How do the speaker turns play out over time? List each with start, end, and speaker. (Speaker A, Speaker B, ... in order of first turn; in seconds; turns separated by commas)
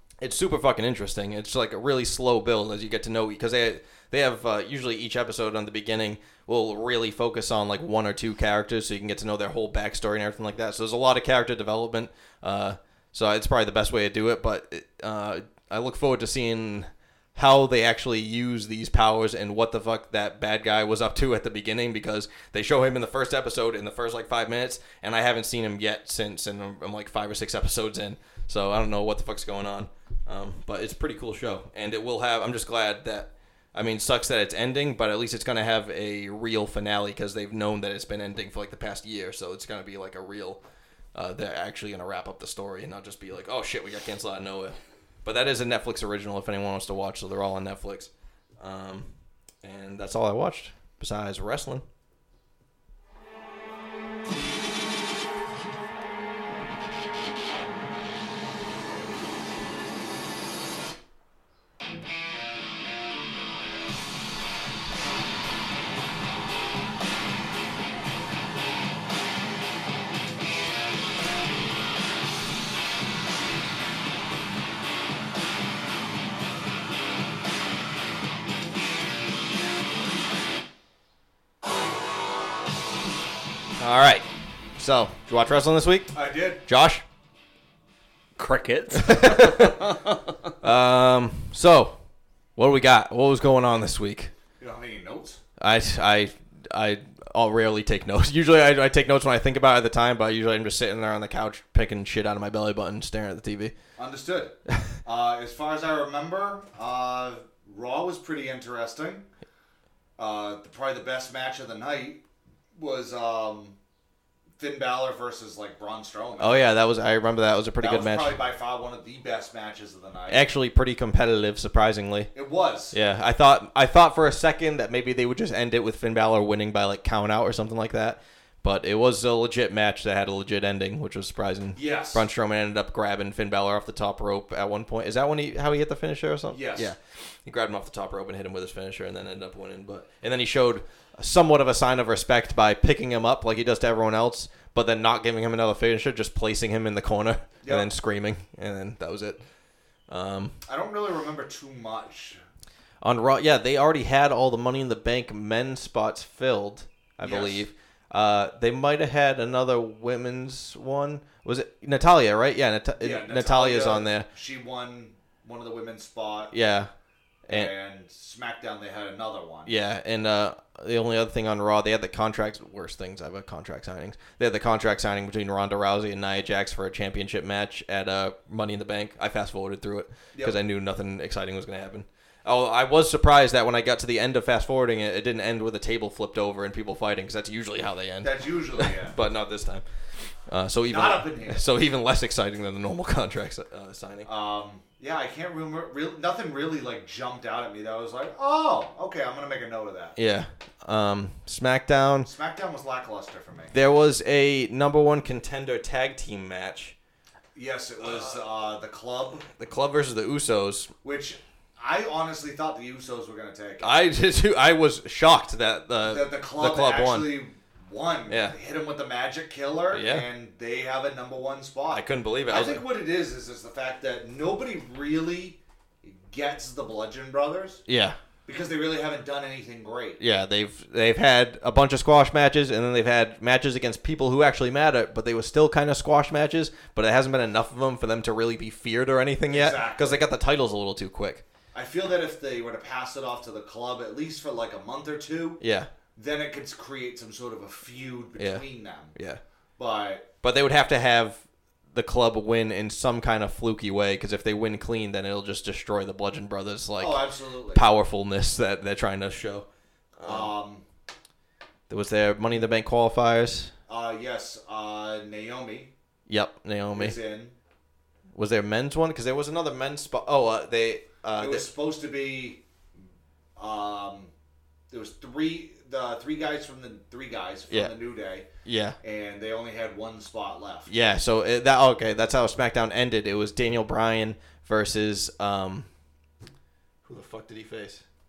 Speaker A: 0.2-40.6, Speaker A: 41.1-49.1, Speaker A: 49.6-51.8, Speaker A: 83.8-87.0, Speaker B: 86.1-86.6, Speaker C: 88.4-90.5, Speaker A: 89.0-89.9, Speaker A: 90.6-92.0, Speaker A: 92.6-94.3, Speaker B: 94.6-95.4, Speaker A: 95.6-103.8, Speaker B: 104.0-109.3, Speaker B: 110.2-112.2, Speaker B: 112.7-113.8, Speaker B: 114.6-116.7, Speaker A: 116.4-118.3, Speaker B: 117.8-120.5, Speaker A: 120.3-122.3, Speaker B: 122.3-123.0, Speaker A: 122.9-149.4, Speaker B: 131.8-132.3, Speaker B: 136.5-136.9, Speaker B: 147.6-147.9, Speaker A: 150.1-150.6, Speaker B: 150.7-152.4, Speaker A: 153.0-164.3, Speaker B: 157.2-157.7, Speaker B: 163.0-166.5, Speaker A: 166.5-166.9, Speaker B: 167.5-169.7, Speaker A: 167.5-167.7, Speaker A: 169.7-189.8, Speaker B: 188.2-189.2, Speaker A: 190.5-194.3, Speaker B: 190.9-191.6, Speaker B: 194.2-200.2, Speaker A: 200.2-202.3, Speaker B: 202.2-203.8, Speaker A: 203.7-206.9, Speaker B: 207.6-209.5, Speaker A: 209.5-210.9, Speaker B: 211.0-213.9, Speaker A: 213.8-217.4, Speaker B: 216.0-227.8, Speaker A: 218.3-218.6, Speaker A: 219.9-220.3, Speaker A: 221.9-222.8, Speaker A: 227.9-228.2, Speaker B: 228.5-230.2, Speaker A: 230.2-241.4, Speaker B: 239.5-240.2, Speaker B: 241.7-245.6, Speaker A: 245.6-245.9, Speaker B: 246.2-249.2, Speaker A: 248.4-249.4, Speaker B: 249.8-250.3, Speaker A: 250.4-259.7, Speaker B: 257.0-257.9, Speaker A: 260.2-260.5, Speaker B: 260.2-260.8, Speaker A: 261.9-263.7, Speaker B: 263.9-265.9, Speaker A: 266.3-267.2, Speaker B: 266.9-267.6, Speaker A: 268.4-271.7, Speaker B: 271.4-272.6, Speaker B: 273.6-274.3, Speaker B: 274.9-278.5, Speaker A: 278.6-279.0, Speaker B: 279.0-280.9, Speaker A: 280.9-285.9, Speaker A: 287.1-288.0